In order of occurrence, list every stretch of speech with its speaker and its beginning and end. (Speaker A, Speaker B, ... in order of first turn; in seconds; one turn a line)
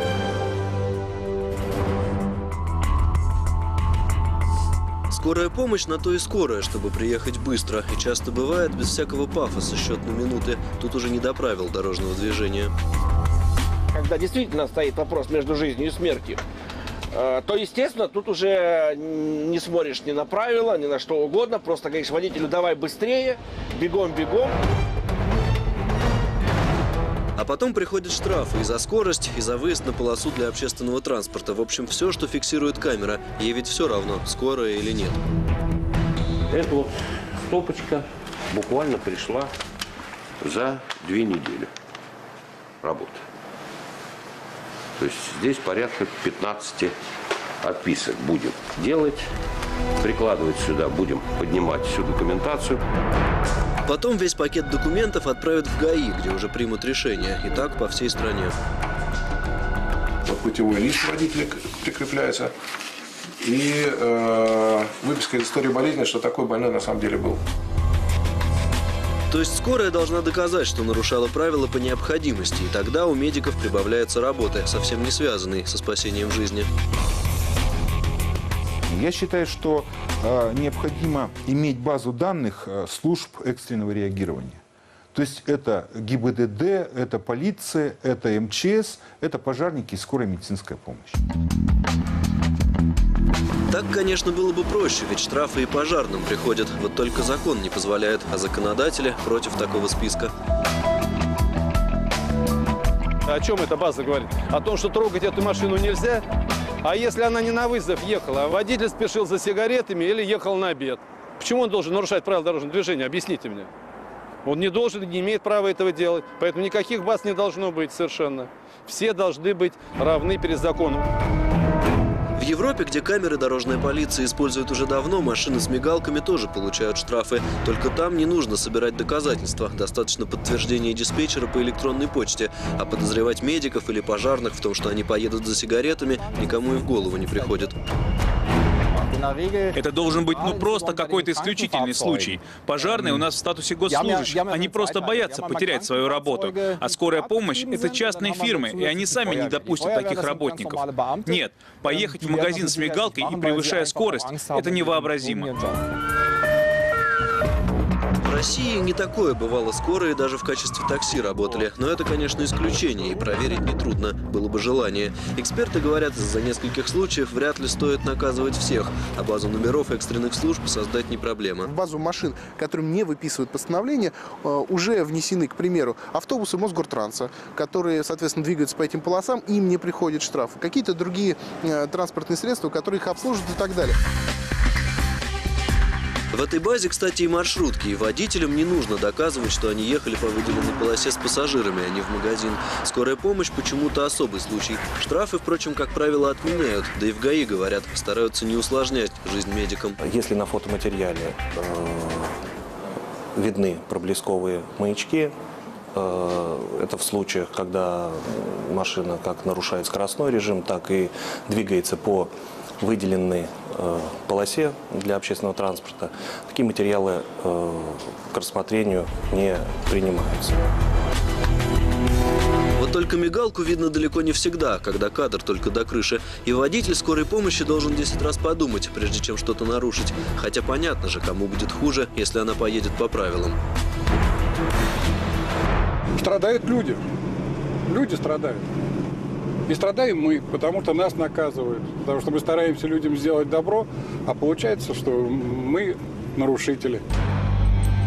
Speaker A: 5.1-12.7
Speaker B: 13.9-16.4
Speaker B: 17.1-24.6
Speaker A: 27.4-35.2
Speaker C: 36.5-39.5
Speaker C: 40.4-41.7
Speaker C: 42.8-43.2
Speaker C: 45.0-46.9
Speaker C: 47.6-49.3
Speaker C: 50.0-52.8
Speaker A: 53.9-58.5
Speaker D: 60.3-62.5
Speaker D: 63.4-67.4
Speaker A: 69.3-76.7
Speaker E: 78.9-84.6
Speaker E: 85.1-91.2
Speaker A: 93.7-100.3
Speaker F: 103.3-106.2
Speaker F: 106.8-113.7
Speaker F: 114.5-121.1
Speaker A: 122.4-137.8
Speaker F: 136.0-137.7
Speaker F: 138.9-143.2
Speaker G: 139.7-155.5
Speaker F: 143.9-156.0
Speaker A: 158.2-171.7
Speaker H: 171.6-184.0
Speaker A: 186.3-200.0
Speaker I: 200.0-202.3
Speaker I: 203.4-205.3
Speaker I: 205.9-220.6
Speaker A: 222.8-233.6
Speaker J: 236.2-237.0
Speaker J: 237.9-238.6
Speaker J: 239.7-247.0